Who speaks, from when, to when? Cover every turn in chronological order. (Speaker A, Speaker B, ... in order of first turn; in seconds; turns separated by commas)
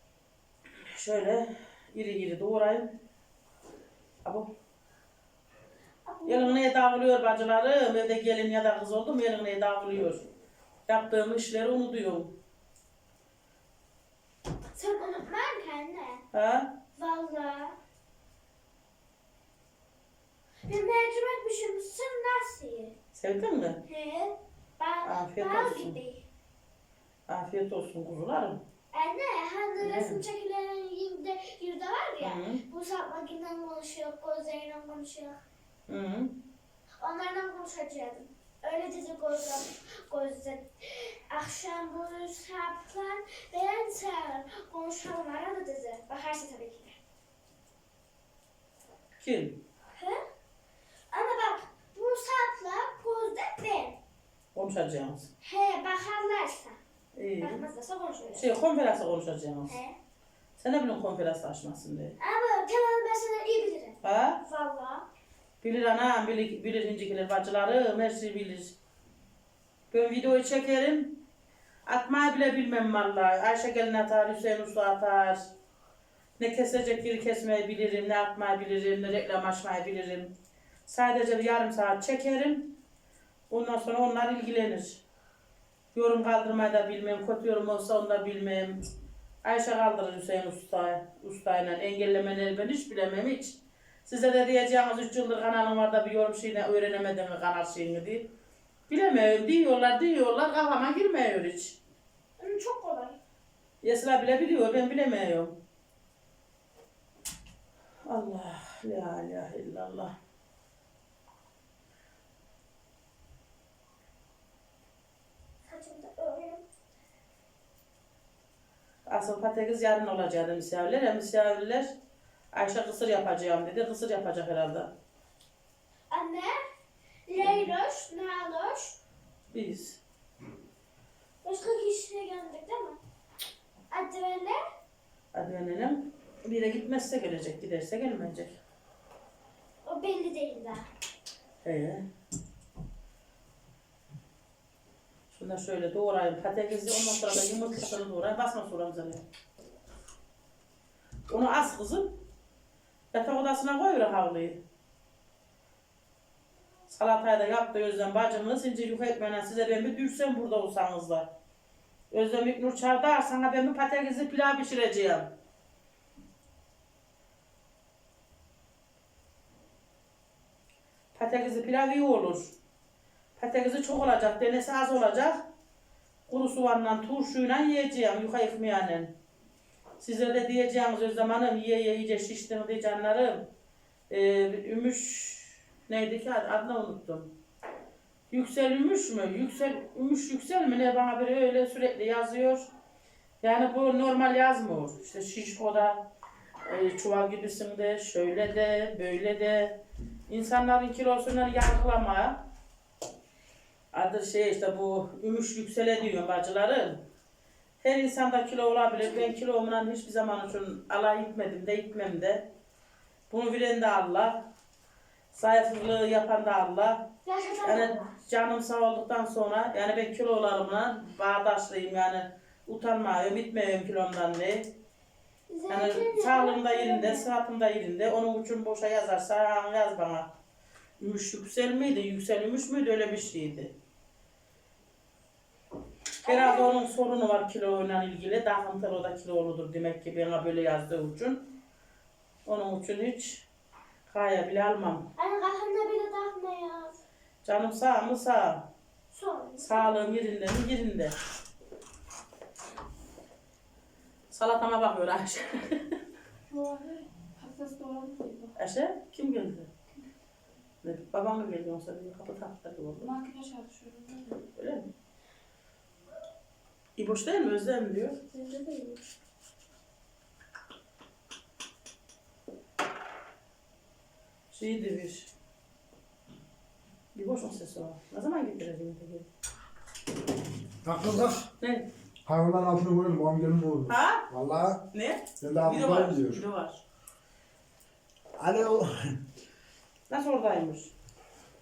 Speaker A: 0.9-3.0, Speaker A: 4.2-4.5, Speaker B: 6.1-6.6, Speaker A: 6.3-10.2, Speaker A: 10.9-12.4, Speaker B: 14.8-16.2, Speaker A: 16.3-16.8, Speaker B: 17.0-17.8, Speaker B: 20.7-22.9, Speaker A: 23.1-23.8, Speaker B: 23.9-26.2, Speaker A: 25.0-26.0, Speaker A: 27.3-28.6, Speaker B: 28.9-35.4, Speaker A: 29.8-30.2, Speaker A: 32.2-32.6, Speaker A: 35.9-36.4, Speaker B: 37.0-47.0, Speaker A: 49.2-49.6, Speaker B: 49.9-50.2, Speaker B: 51.1-54.0, Speaker A: 54.5-55.3, Speaker B: 55.4-56.8, Speaker A: 57.2-57.6, Speaker B: 57.4-58.5, Speaker A: 58.4-59.8, Speaker B: 59.7-60.0, Speaker A: 60.6-62.1, Speaker B: 62.2-65.0, Speaker A: 64.0-64.4, Speaker A: 65.6-68.8, Speaker A: 69.9-71.2, Speaker A: 71.9-75.5, Speaker A: 76.4-80.3, Speaker A: 80.9-82.8, Speaker A: 83.5-85.0, Speaker A: 85.9-88.8, Speaker A: 89.4-98.3, Speaker A: 98.9-101.8, Speaker B: 102.4-103.2, Speaker A: 103.8-105.6, Speaker A: 108.0-110.1, Speaker B: 115.7-116.6, Speaker A: 119.1-121.9, Speaker A: 122.5-124.9, Speaker B: 126.1-126.6, Speaker B: 127.3-129.0, Speaker A: 127.4-127.7, Speaker A: 129.5-130.0, Speaker B: 131.4-133.0, Speaker B: 133.9-134.6, Speaker A: 135.3-138.6, Speaker B: 139.8-140.9, Speaker A: 141.6-142.1, Speaker A: 145.3-149.2, Speaker A: 151.3-152.2, Speaker A: 153.1-154.6, Speaker A: 156.9-161.3, Speaker A: 162.1-165.3, Speaker A: 171.2-172.5, Speaker A: 173.4-175.4, Speaker A: 176.3-179.2, Speaker A: 180.0-183.5, Speaker A: 184.1-187.3, Speaker A: 188.3-192.7, Speaker A: 193.4-196.1, Speaker A: 196.7-202.4, Speaker A: 203.9-207.0, Speaker A: 207.8-212.5, Speaker A: 213.3-214.5, Speaker A: 215.3-217.1, Speaker B: 217.2-218.1, Speaker A: 217.6-224.7, Speaker B: 225.5-227.2, Speaker A: 225.7-230.3, Speaker A: 231.0-233.7, Speaker B: 236.2-236.7, Speaker A: 236.2-241.5, Speaker A: 242.5-243.5, Speaker A: 244.1-245.1, Speaker B: 245.2-246.9, Speaker A: 247.4-248.7, Speaker B: 249.1-249.9, Speaker A: 249.6-251.1, Speaker A: 254.3-256.0, Speaker C: 256.5-258.6, Speaker A: 258.6-259.7, Speaker A: 260.8-263.1, Speaker C: 263.0-264.4, Speaker A: 264.6-264.9, Speaker A: 267.0-268.2, Speaker C: 268.3-269.0, Speaker A: 274.5-275.3, Speaker A: 277.1-279.3, Speaker D: 280.8-281.5, Speaker A: 281.6-281.9, Speaker D: 282.3-284.8, Speaker A: 283.9-284.3, Speaker A: 284.9-286.8, Speaker D: 285.4-286.4, Speaker D: 288.4-289.2, Speaker A: 290.1-290.9